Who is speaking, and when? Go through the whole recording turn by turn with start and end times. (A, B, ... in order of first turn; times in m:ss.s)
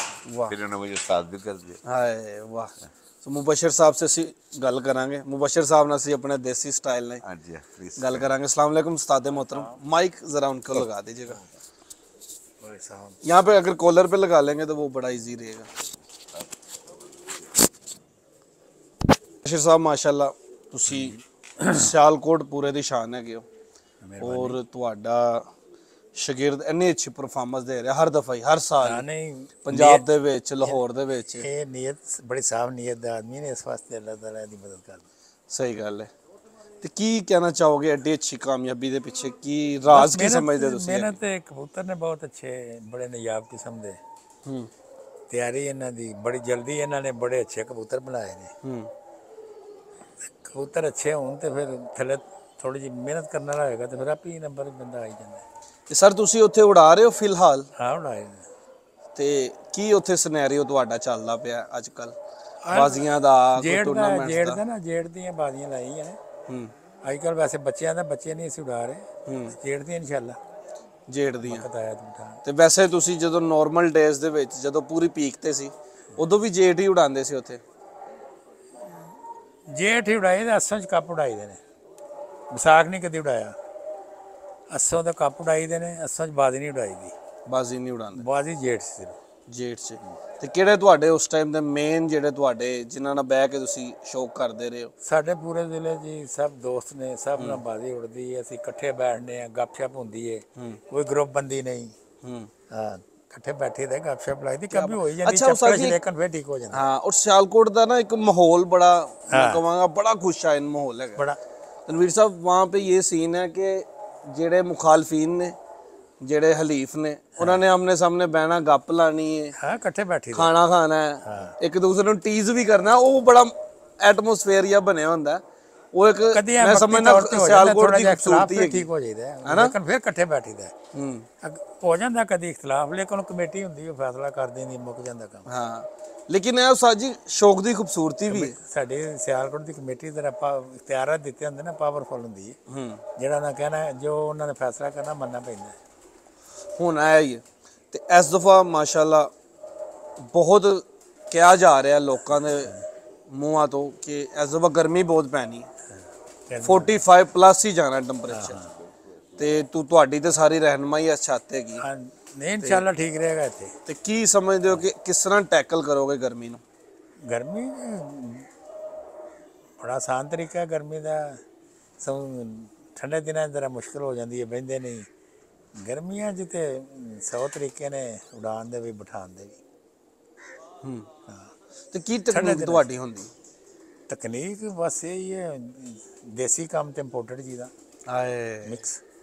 0:00.2-0:00.6 A
0:00.4-0:01.8 B
0:01.8-0:07.2 A
0:07.2-0:08.3 B
0:08.0-0:11.4 A
0:09.4-0:09.7 C
0:12.6-0:13.2 C
0:13.2-0:15.7 A
0:19.4-0:23.4 A
0:20.9-0:21.9 C
0:24.0-0:24.6 C
0:24.2-0:25.5 A
0:26.2-0:29.0 A
0:28.8-0:30.0 C
0:29.6-0:31.5 A
0:31.4-0:35.0 C
0:35.5-0:36.1 A
0:36.8-0:41.2 A
0:39.9-0:44.0 C
0:44.4-0:44.7 A
0:45.3-0:48.5 C
0:48.6-0:48.9 A
0:50.2-0:55.4 C
0:55.9-0:57.7 A
0:57.8-0:58.4 C
0:59.1-1:02.2 A
1:02.6-1:06.2 C
1:02.7-1:04.6 A
1:07.0-1:10.4 C
1:09.2-1:09.6 A
1:11.1-1:11.7 A
1:11.4-1:12.4 C
1:12.4-1:17.6 A
1:19.7-1:21.6 C
1:22.5-1:23.5 C
1:24.7-1:27.1 C
1:27.5-1:28.2 A
1:28.2-1:29.2 C
1:29.5-1:34.9 A
1:35.0-1:41.9 C
1:37.4-1:37.6 A
1:42.2-1:42.5 A
1:42.7-1:46.8 C
1:44.7-1:46.0 A
1:46.7-1:51.2 A
1:49.3-1:49.6 C
1:51.9-1:55.6 A
1:56.2-1:59.6 A
1:59.6-2:00.5 C
2:00.3-2:08.9 A
2:01.2-2:01.6 C
2:06.3-2:10.7 C
2:09.4-2:09.7 A
2:10.9-2:11.3 A
2:11.4-2:15.4 C
2:15.4-2:18.6 A
2:18.3-2:22.6 C
2:22.7-2:23.0 A
2:23.2-2:25.8 C
2:26.8-2:29.3 A
2:30.2-2:32.7 A
2:33.3-2:35.7 A
2:35.9-2:37.0 C
2:36.6-2:38.6 A
2:38.3-2:38.7 C
2:38.7-2:39.5 B
2:39.4-2:41.8 A
2:41.8-2:43.7 C
2:43.8-2:46.6 A
2:47.3-2:48.5 C
2:49.8-2:51.4 C
2:52.0-2:55.1 C
2:55.7-2:59.6 C
3:00.8-3:01.1 A
3:01.9-3:03.3 A
3:02.3-3:02.9 C
3:04.1-3:07.7 C
3:08.1-3:08.8 A
3:08.6-3:09.0 C